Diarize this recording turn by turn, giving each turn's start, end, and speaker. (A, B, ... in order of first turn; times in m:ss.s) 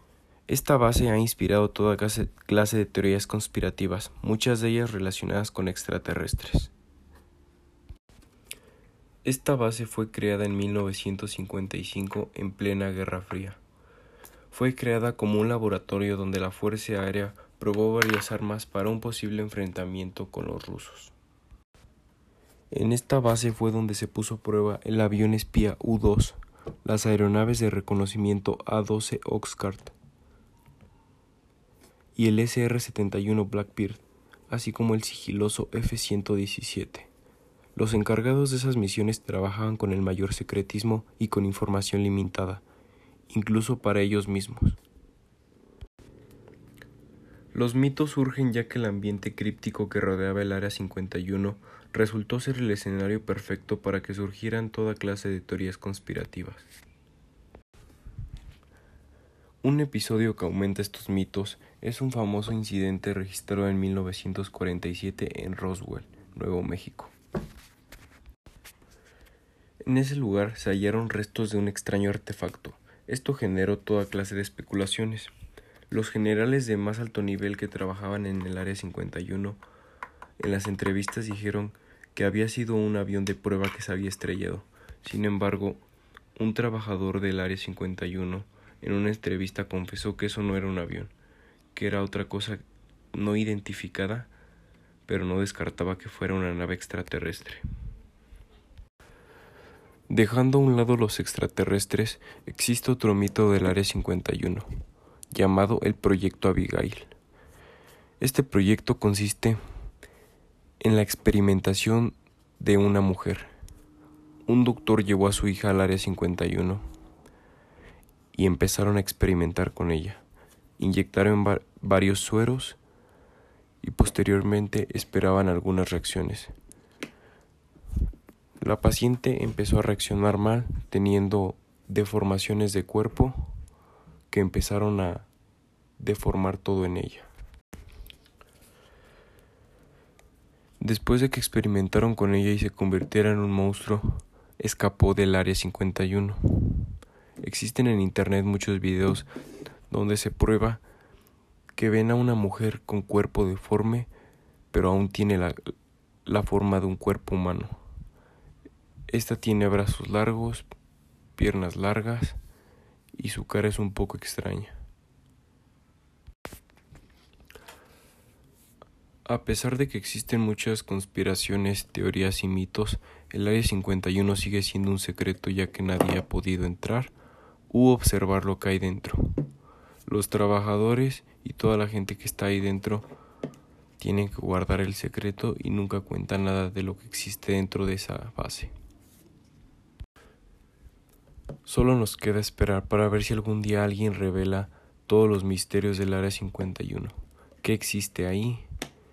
0:00.5-0:06.7 A
0:09.2-0:13.6 A
0:14.5-0:21.1 A
0:22.7-0:29.9 A
0:32.1-0:37.1 A
0:37.7-0:42.6 A
0:43.3-0:44.8 A
0:47.5-0:56.6 A
0:59.6-1:07.1 A
1:09.8-1:15.3 A
1:15.9-1:19.6 A
1:20.4-1:25.8 A
1:26.4-1:31.1 A
1:31.7-1:32.6 A
1:33.1-1:34.3 A
1:35.1-1:37.6 A
1:40.1-1:44.7 A
1:45.3-1:47.1 A
1:48.2-1:49.6 A
1:50.8-1:53.5 A
1:54.4-1:56.8 A
1:58.3-2:00.2 A
2:00.8-2:02.8 A
2:03.8-2:06.5 A
2:08.6-2:13.5 A
2:14.3-2:15.3 A
2:16.0-2:17.3 A
2:20.8-2:29.3 A
2:29.9-2:30.8 A
2:31.7-2:34.1 A
2:34.7-2:35.7 A
2:36.2-2:37.8 A
2:39.1-2:40.7 A
2:41.4-2:42.4 A
2:43.1-2:44.8 A
2:49.2-2:57.1 A
2:57.7-2:59.4 A
3:00.1-3:03.1 A
3:04.0-3:08.7 A
3:11.6-3:18.6 A